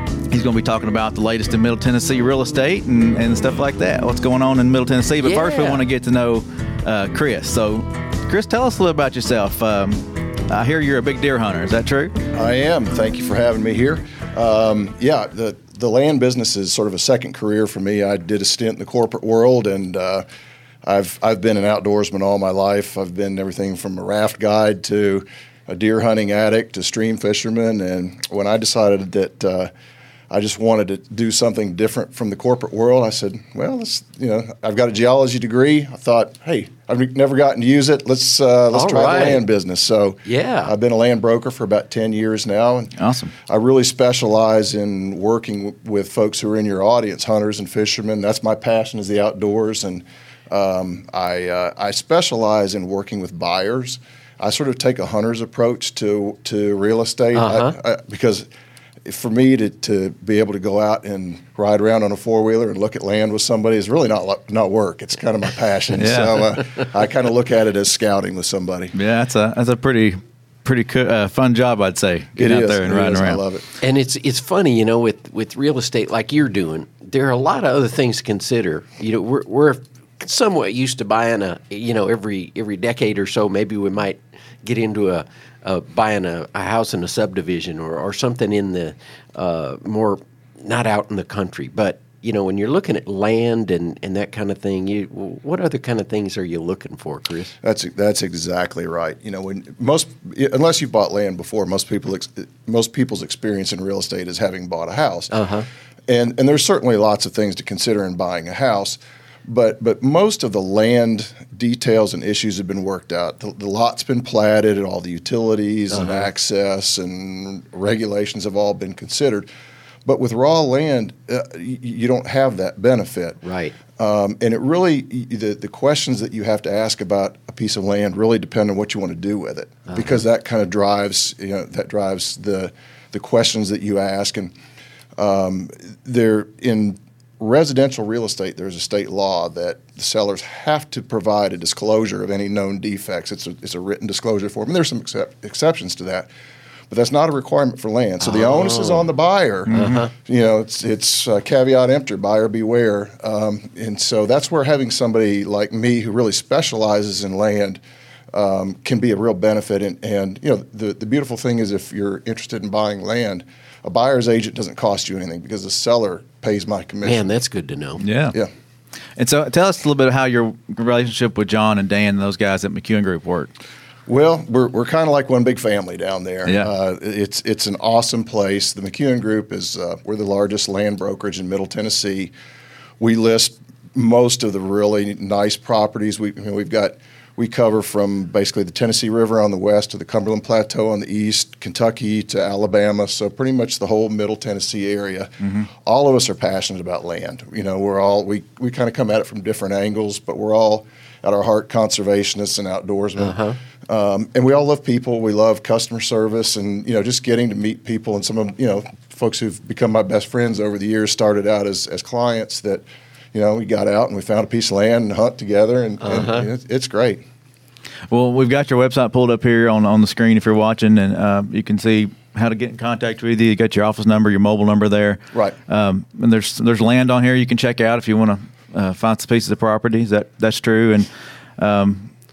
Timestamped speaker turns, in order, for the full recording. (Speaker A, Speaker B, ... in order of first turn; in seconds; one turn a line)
Speaker A: 0.3-12.1
Speaker B: 5.2-5.8
Speaker C: 12.3-20.2
Speaker C: 20.8-29.7
Speaker C: 30.3-42.9
Speaker B: 38.7-39.4
Speaker B: 40.2-40.7
Speaker A: 43.0-43.3
Speaker C: 43.5-58.5
Speaker B: 57.3-57.7
Speaker C: 59.0-68.9
Speaker A: 66.0-66.5
Speaker A: 68.9-73.4
Speaker C: 72.4-73.6
Speaker B: 73.8-97.5
Speaker C: 97.6-105.3
Speaker B: 105.3-105.7
Speaker C: 106.1-119.5
Speaker B: 115.9-116.2
Speaker C: 120.0-123.4
Speaker B: 123.4-123.7
Speaker C: 124.0-134.5
Speaker C: 135.2-146.3
Speaker C: 146.9-157.8
Speaker B: 148.2-149.1
Speaker A: 149.7-150.0
Speaker B: 149.7-150.1
Speaker C: 158.3-167.3
Speaker B: 167.0-168.0
Speaker A: 168.0-168.4
Speaker A: 169.2-173.5
Speaker C: 174.1-182.3
Speaker C: 183.0-217.2
Speaker B: 203.2-203.6
Speaker B: 216.1-216.5
Speaker A: 218.1-232.1